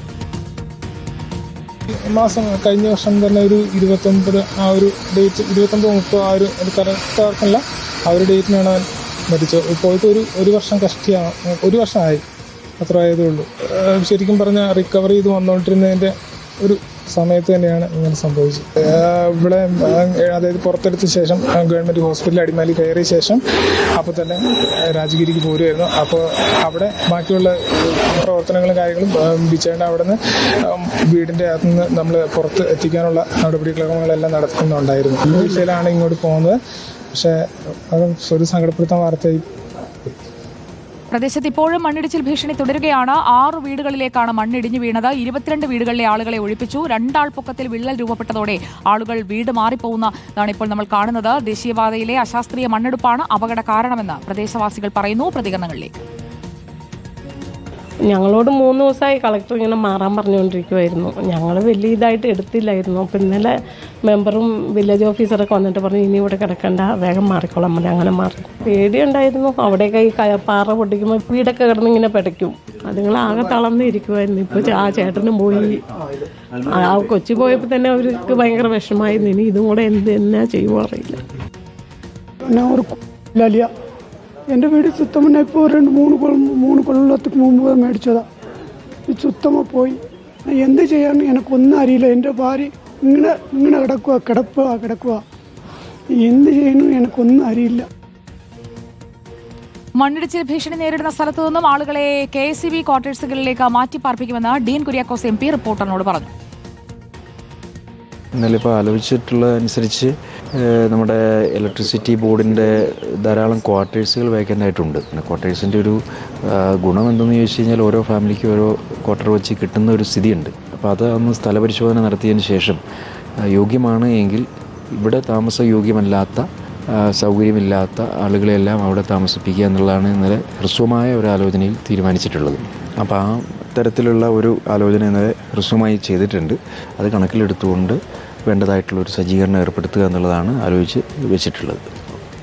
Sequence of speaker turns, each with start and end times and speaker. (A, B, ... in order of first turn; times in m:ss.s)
0:02.1-0:12.2 A
0:12.8-0:23.4 A
0:24.0-0:27.6 A
0:28.2-0:36.6 A
0:37.1-0:37.4 A
0:37.9-0:39.4 A
0:41.1-0:55.9 B
0:58.1-1:03.5 C
1:04.0-1:15.8 C
1:16.6-1:21.2 C
1:22.4-1:23.7 D
1:24.5-1:28.2 D
1:29.1-1:30.0 D
1:30.5-1:35.2 D
1:36.2-1:37.9 D
1:40.0-1:46.3 B
1:48.4-2:02.8 E
2:03.5-2:22.0 E